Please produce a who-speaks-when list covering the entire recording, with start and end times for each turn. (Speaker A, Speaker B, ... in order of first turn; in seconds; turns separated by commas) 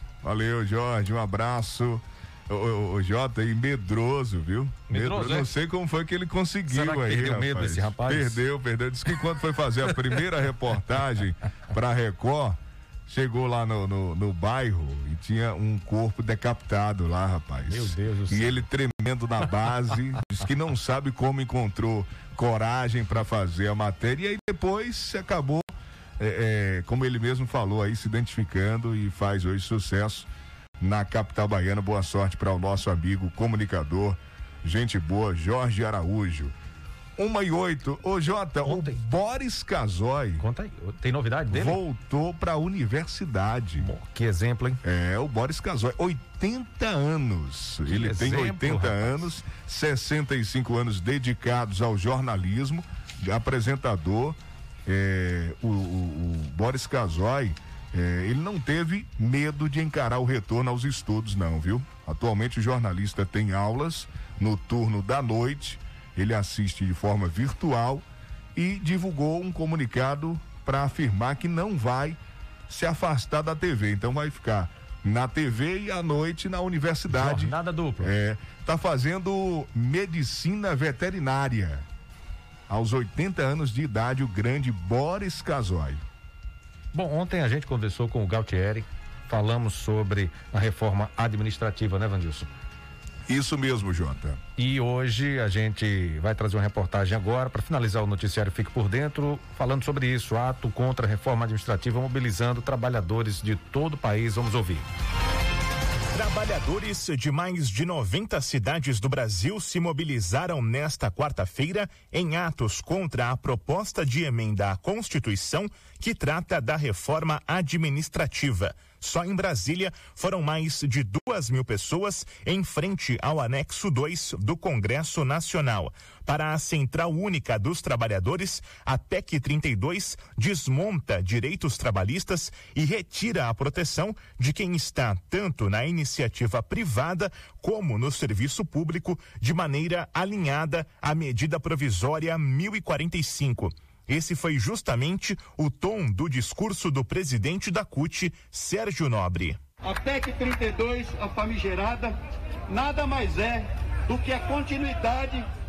Speaker A: 0.2-30.3, Speaker B: 4.9-5.5, Speaker B: 6.7-8.4, Speaker B: 17.7-18.7, Speaker A: 30.8-36.5, Speaker A: 37.2-40.4, Speaker B: 38.6-39.0, Speaker B: 40.4-41.8, Speaker A: 41.5-43.9, Speaker B: 43.8-44.8, Speaker A: 44.8-72.2, Speaker B: 47.9-49.2, Speaker A: 72.7-81.8, Speaker B: 77.1-78.1, Speaker A: 82.7-86.0, Speaker B: 86.9-92.5, Speaker A: 93.3-94.4, Speaker B: 94.6-104.8, Speaker C: 106.1-149.6, Speaker D: 149.8-152.1, Speaker D: 152.7-155.4